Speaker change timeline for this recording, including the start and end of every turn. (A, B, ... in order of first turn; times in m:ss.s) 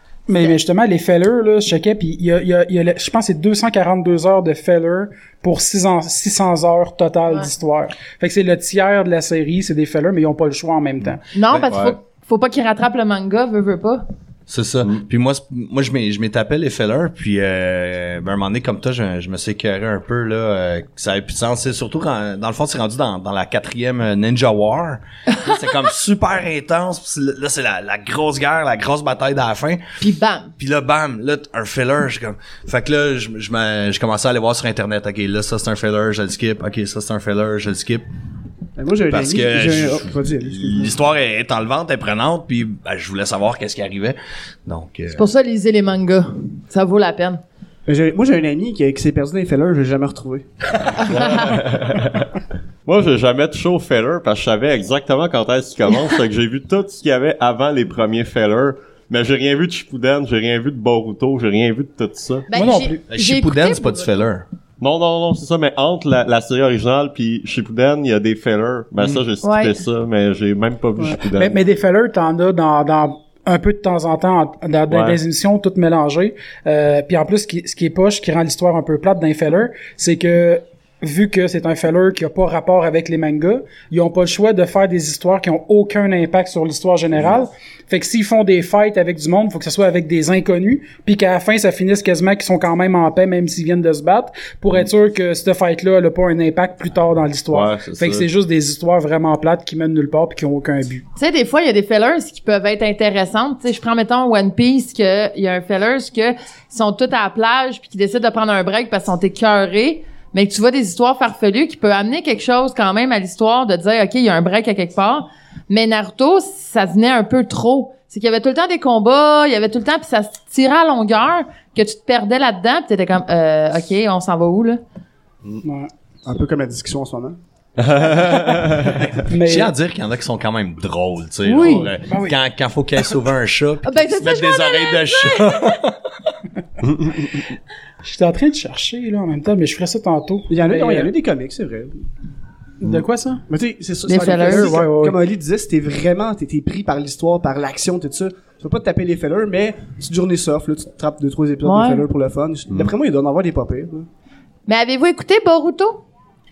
0:00.3-0:11.2 A
0:11.3-0:14.0 B
0:11.5-0:12.0 C
0:14.5-0:29.8 D
0:30.0-0:30.5 B
0:30.6-0:38.0 D
0:38.8-0:41.0 E
0:39.0-0:45.3 D
0:45.1-0:47.4 B
0:47.8-0:50.4 E
0:51.0-0:51.5 B
0:51.0-1:02.6 C
1:02.5-1:04.1 B
1:02.5-1:03.0 A
1:03.1-1:04.4 D
1:04.8-1:11.6 C
1:09.4-1:09.8 B
1:11.3-1:41.0 A
1:14.9-1:15.2 C
1:37.5-1:38.3 C
1:41.2-2:04.8 B
2:05.6-2:05.9 A
2:06.2-2:07.4 E
2:07.8-2:09.1 C
2:09.2-2:09.7 A
2:09.3-2:15.7 D
2:11.4-2:11.9 B
2:12.0-2:12.3 A
2:13.8-2:15.8 B
2:16.8-2:17.3 C
2:18.0-2:21.1 A
2:20.5-2:22.0 E
2:22.8-2:23.4 A
2:23.5-2:34.1 E
2:24.1-2:24.8 B
2:24.1-2:25.2 A
2:31.6-2:32.0 B
2:34.7-2:36.0 B